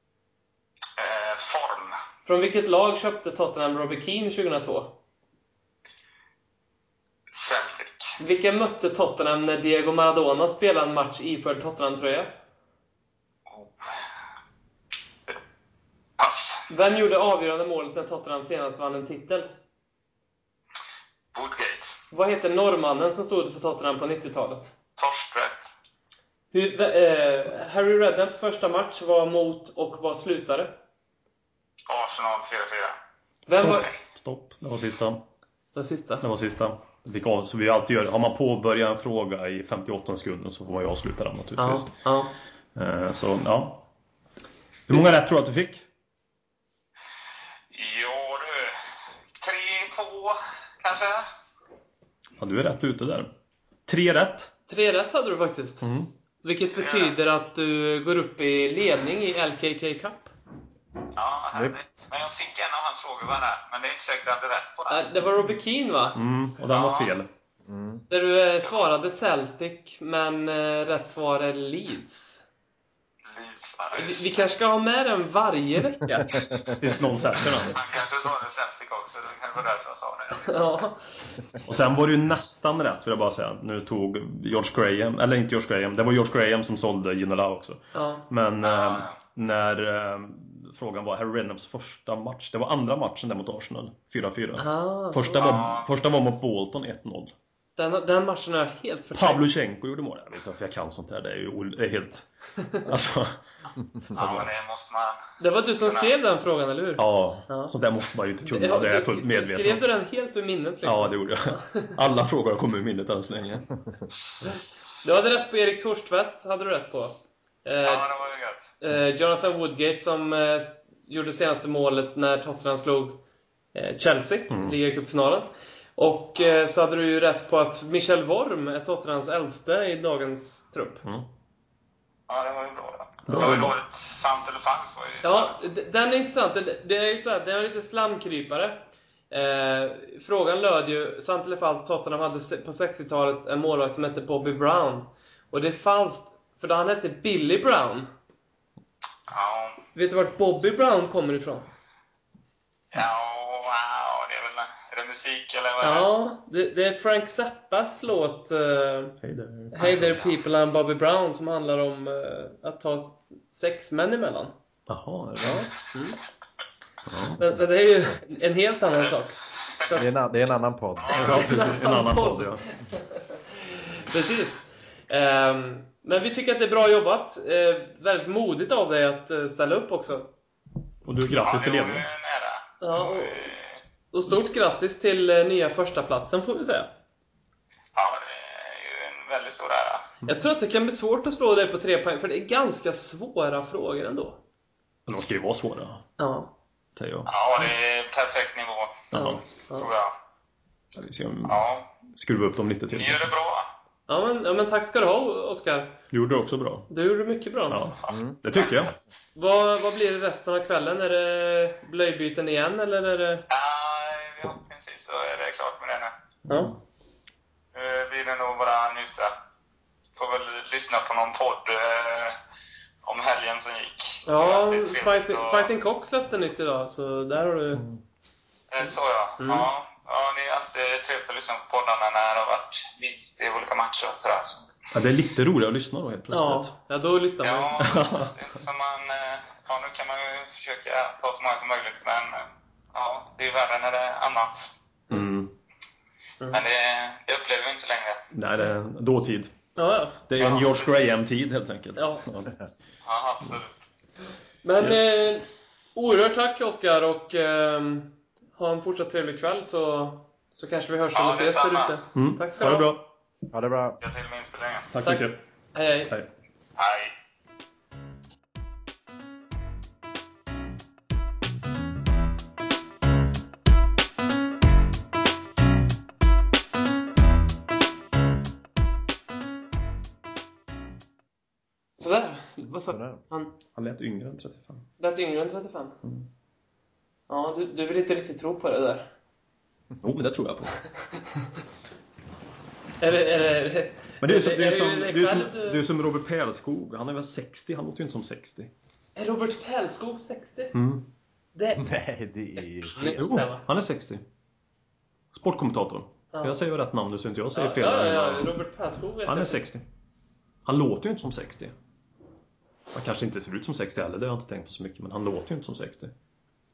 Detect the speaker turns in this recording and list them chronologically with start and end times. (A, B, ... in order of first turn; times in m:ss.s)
0:01.0-0:01.9 A
0:02.2-0:05.0 B
0:07.3-0:08.1 A
0:08.2-0:12.3 B
0:13.5-0:13.8 A
0:16.2-0:16.6 A
0:16.7-0:19.5 B
0:21.3-0:21.9 A
0:22.1-0:24.7 B
0:25.0-0:25.6 A
0:26.5-0:30.8 B
0:31.9-0:33.0 A
0:33.5-0:33.9 B
0:33.6-0:35.2 C
0:35.7-0:36.2 B
0:36.2-0:41.9 C
0:41.6-0:42.3 B
0:42.8-0:43.8 C
0:44.9-0:45.8 C
0:47.7-0:48.8 A
0:49.4-0:51.2 A
0:52.4-0:53.3 C
0:53.9-0:54.5 C
0:54.7-0:55.9 B
0:55.8-0:56.1 C
0:56.4-1:00.3 B
0:56.7-0:57.2 A
1:01.2-1:05.0 A
1:01.5-1:02.1 D
1:04.9-1:06.2 B
1:06.1-1:07.3 C
1:06.7-1:07.1 A
1:07.6-1:08.0 D
1:08.1-1:12.4 B
1:13.3-1:14.4 A
1:14.0-1:16.5 B
1:16.7-1:17.7 C
1:17.7-1:20.5 A
1:20.4-1:21.0 B
1:21.6-1:37.3 C
1:27.9-1:28.2 B
1:28.6-1:29.2 A
1:34.6-1:35.5 B
1:35.4-1:35.9 A
1:37.8-1:39.5 B
1:39.1-1:42.3 C
1:42.8-1:43.4 C
1:44.1-1:45.2 A
1:44.1-1:44.5 C
1:45.4-1:47.7 B
1:45.8-1:46.1 A
1:47.0-1:49.8 C
1:48.4-1:51.9 B
1:50.8-1:53.8 C
1:55.0-1:58.1 B
1:57.8-1:58.6 A
1:58.8-2:03.2 B
2:03.7-2:11.0 B
2:04.5-2:04.8 C
2:12.3-2:15.6 A
2:13.3-2:13.7 C
2:13.3-2:13.6 B
2:15.2-2:28.1 B
2:29.3-2:29.8 A
2:29.9-2:31.7 B
2:32.9-2:36.1 A
2:35.8-2:39.2 B
2:39.2-2:40.0 C
2:39.7-2:44.5 B
2:44.9-2:45.7 C
2:45.4-2:46.2 B
2:47.0-2:47.4 C
2:47.4-2:50.6 B
2:49.9-2:51.6 D
2:51.1-2:52.6 C
2:51.1-3:00.3 B
3:01.0-3:02.0 C
3:01.4-3:03.8 A
3:02.8-3:03.5 B
3:04.1-3:06.9 B
3:07.9-3:10.1 A
3:10.2-3:14.4 B
3:15.1-3:16.1 C
3:16.2-3:16.5 B
3:17.0-3:17.3 C
3:17.2-3:19.1 A
3:19.1-3:19.4 C
3:19.1-3:19.9 B
3:19.7-3:20.1 A
3:20.9-3:21.6 C
3:21.4-3:21.8 A
3:22.1-3:23.3 C
3:22.9-3:23.7 A
3:24.1-3:26.0 B
3:26.1-3:26.9 C
3:26.9-3:27.8 B
3:27.7-3:28.9 C
3:28.0-3:28.8 A
3:29.4-3:33.4 B
3:33.5-3:36.1 A
3:36.5-3:36.7 B
3:36.5-3:36.7 C
3:37.7-3:39.3 A
3:40.2-3:42.4 A
3:43.0-3:45.7 A
3:44.2-3:47.8 B
3:48.7-3:54.7 A
3:49.4-3:49.7 B
3:54.9-3:56.7 C
3:56.3-3:57.8 B
3:57.4-4:04.7 A
3:57.8-3:58.3 C
4:05.1-4:05.5 C
4:06.5-4:08.2 A
4:08.3-4:09.5 C
4:09.8-4:10.2 B
4:10.3-4:12.5 C
4:10.4-4:10.9 A
4:12.0-4:12.2 B
4:13.0-4:13.7 A
4:14.6-4:22.9 B
4:14.8-4:15.1 C
4:21.1-4:22.0 A
4:22.1-4:23.1 C
4:23.5-4:24.0 D
4:24.0-4:24.9 A
4:24.9-4:25.4 C
4:25.0-4:26.1 B
4:26.8-4:27.1 A
4:42.0-4:43.5 B
4:42.9-4:43.2 D
4:43.7-4:44.9 C
4:45.0-4:46.0 B
4:47.3-4:49.1 B
4:50.0-4:50.8 C
4:53.0-4:55.8 B
4:54.2-4:58.7 C
4:59.2-5:00.7 B
5:00.7-5:01.1 C
5:01.5-5:01.8 B
5:01.8-5:03.0 D
5:02.6-5:03.6 B
5:03.0-5:04.2 C
5:05.3-5:08.6 C
5:06.3-5:06.6 B
5:07.5-5:09.6 B
5:09.2-5:09.8 C
5:10.6-5:11.7 C
5:12.9-5:16.1 C